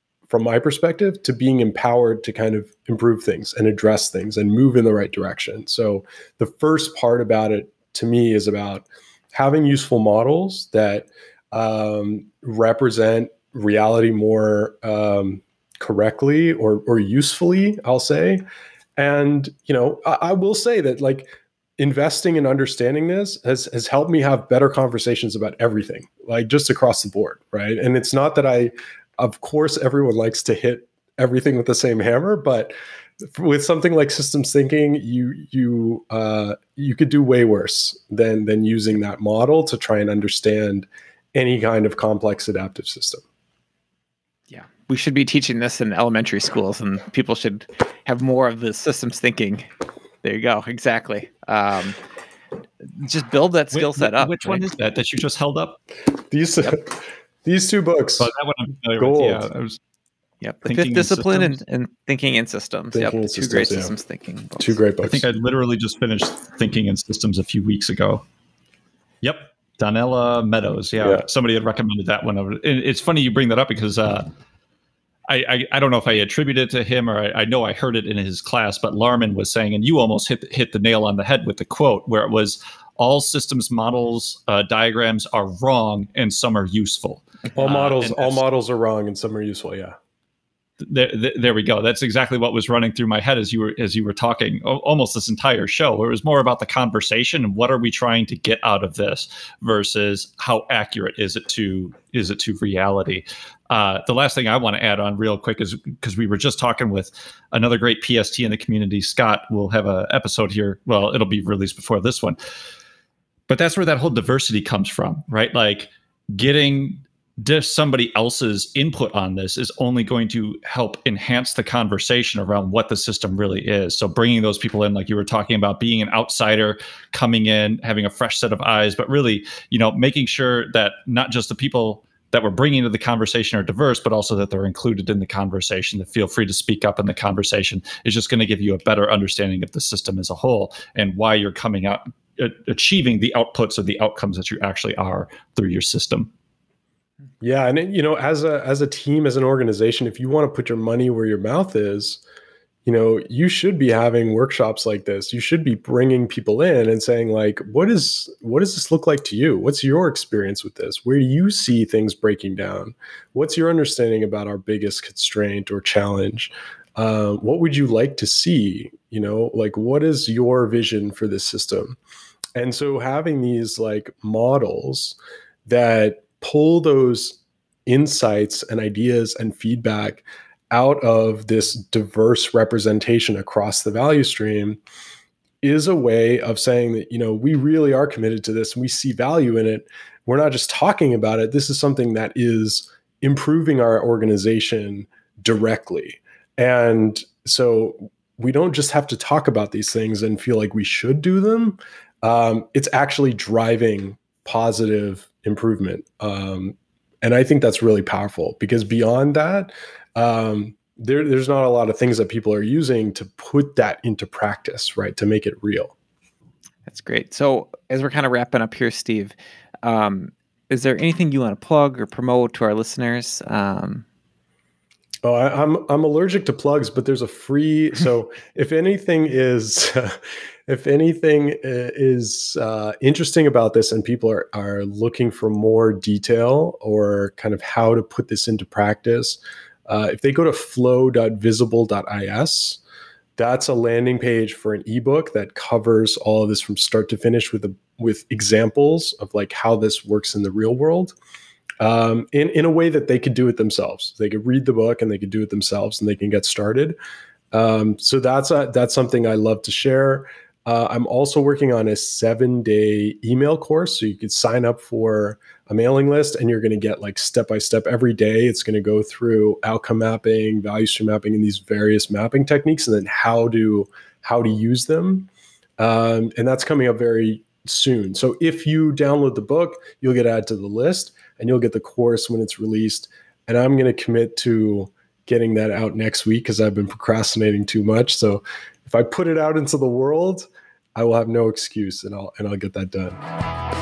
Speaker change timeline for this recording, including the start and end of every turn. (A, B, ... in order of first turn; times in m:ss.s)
0:00.3-0:18.4 A
0:19.0-0:43.2 A
0:44.5-0:49.7 B
0:50.2-0:52.0 B
0:52.9-0:54.6 B
0:53.7-0:55.8 C
0:56.3-0:58.3 A
0:58.2-0:59.8 C
0:59.0-0:59.5 A
1:00.4-1:04.7 B
1:00.6-1:01.6 C
1:02.9-1:03.9 A
1:04.6-1:05.2 A
1:05.0-1:08.2 C
1:09.2-1:14.3 C
1:11.0-1:11.2 A
1:15.3-1:28.4 C
1:27.6-1:30.0 A
1:30.8-1:52.4 C
1:53.5-2:26.3 C
2:27.4-2:32.2 A
2:32.8-2:52.0 A
2:52.5-3:04.8 A
3:05.6-3:35.9 A
3:36.9-3:44.0 B
3:45.2-4:02.8 A
4:03.4-4:11.1 A
4:11.8-4:17.0 A
4:17.5-4:53.2 A